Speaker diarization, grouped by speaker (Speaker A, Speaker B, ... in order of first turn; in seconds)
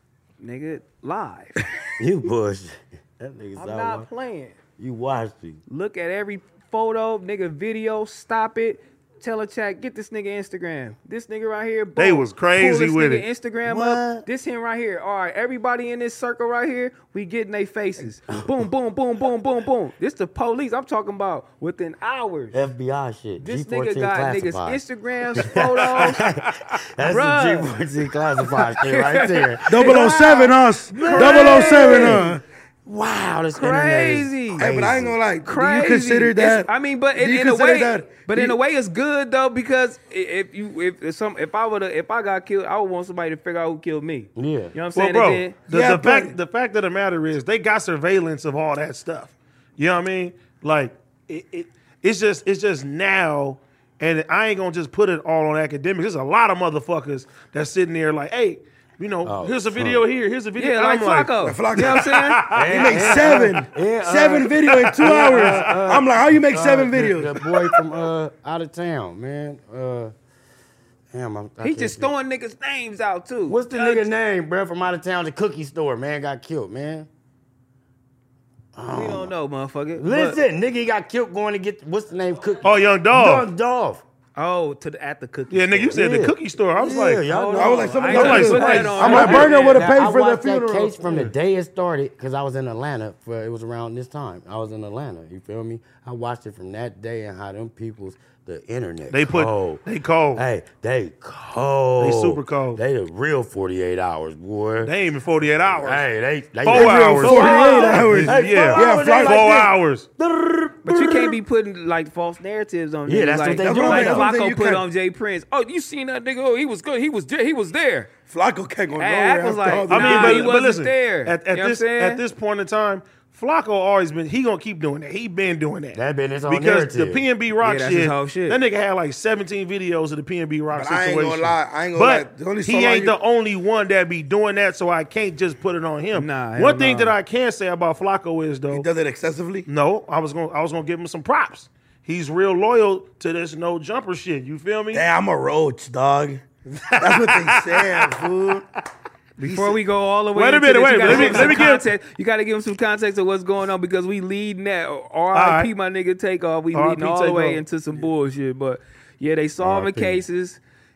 Speaker A: 0.4-1.7, 3.5-4.5, 5.7-22.6, 23.4-26.3, 27.0-27.7, 28.4-32.3, 33.5-34.7, 35.4-45.6, 60.6-62.5, 71.6-74.1, 78.9-80.4, 84.3-86.0, 87.3-90.0, 107.2-108.0, 110.8-118.1, 119.0-122.2, 127.6-128.6, 136.1-137.1, 149.4-160.6
Speaker B: 2.0-4.1, 4.8-5.6, 13.6-14.2, 22.5-24.8, 25.3-30.1, 30.9-35.2, 44.4-44.7, 59.2-60.0, 62.5-70.1, 71.1-72.1, 73.5-77.1, 78.7-79.3, 80.0-84.0, 85.9-99.8, 100.3-104.9, 105.6-111.4, 113.1-114.3, 125.9-127.2, 159.6-160.2
Speaker C: 11.9-13.2, 44.9-61.3, 61.8-63.0, 64.7-65.7, 82.6-83.5, 85.5-87.2, 88.1-89.8, 99.1-100.4, 102.0-102.8, 104.8-106.0, 106.6-110.1, 119.9-138.9, 139.7-145.0, 146.8-148.1, 149.4-149.8, 150.3-151.9, 155.3-155.7, 156.7-157.6
Speaker D: 29.7-32.4, 34.6-38.6, 45.7-46.3, 61.4-67.3, 87.5-91.2, 106.7-109.5, 113.6-114.8, 118.3-120.5, 130.7-133.1, 138.7-139.7, 144.9-146.4, 147.0-148.6, 151.1-151.6